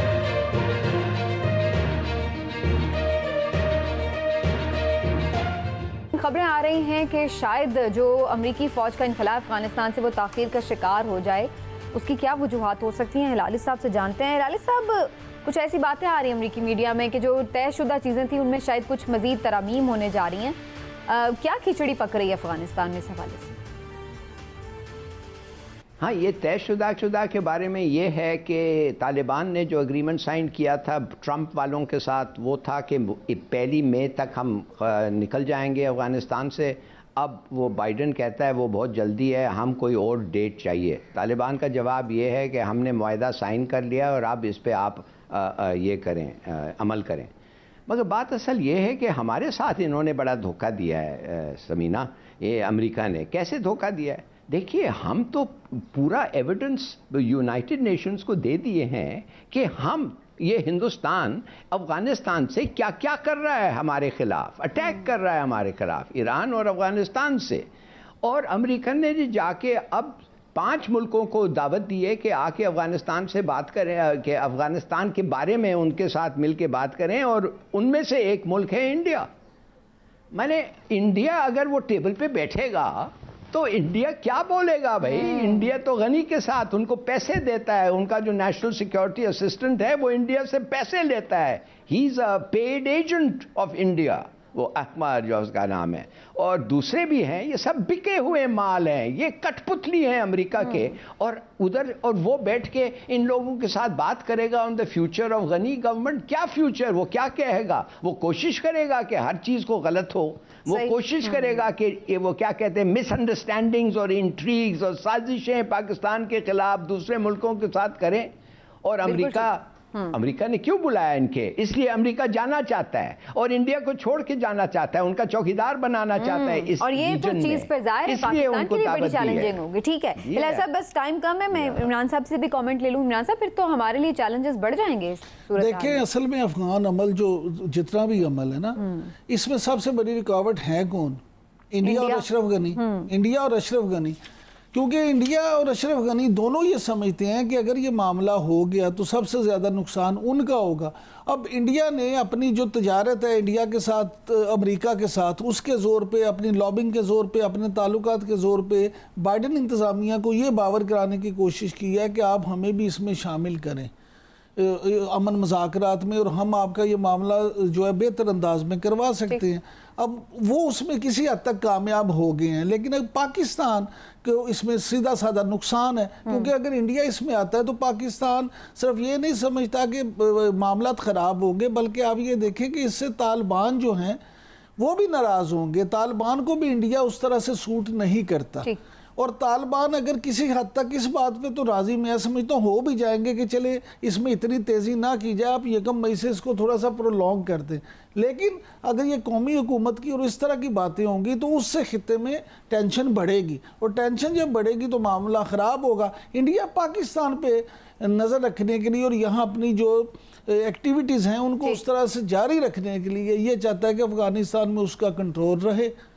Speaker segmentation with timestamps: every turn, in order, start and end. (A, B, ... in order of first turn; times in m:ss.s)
0:06.1-0:23.6 A
0:26.0-0:47.3 B
0:47.9-1:07.7 B
1:08.2-1:19.3 B
1:20.3-1:58.3 B
1:50.7-1:50.9 A
1:58.8-2:09.6 B
1:59.1-2:00.1 A
2:06.2-2:16.0 A
2:10.2-2:10.6 B
2:11.5-2:11.9 B
2:15.5-2:21.2 C
2:21.7-2:24.2 C
2:21.8-2:23.1 A
2:24.7-2:43.9 C
2:44.6-3:04.2 C
2:56.2-2:56.5 A
3:04.8-3:35.9 C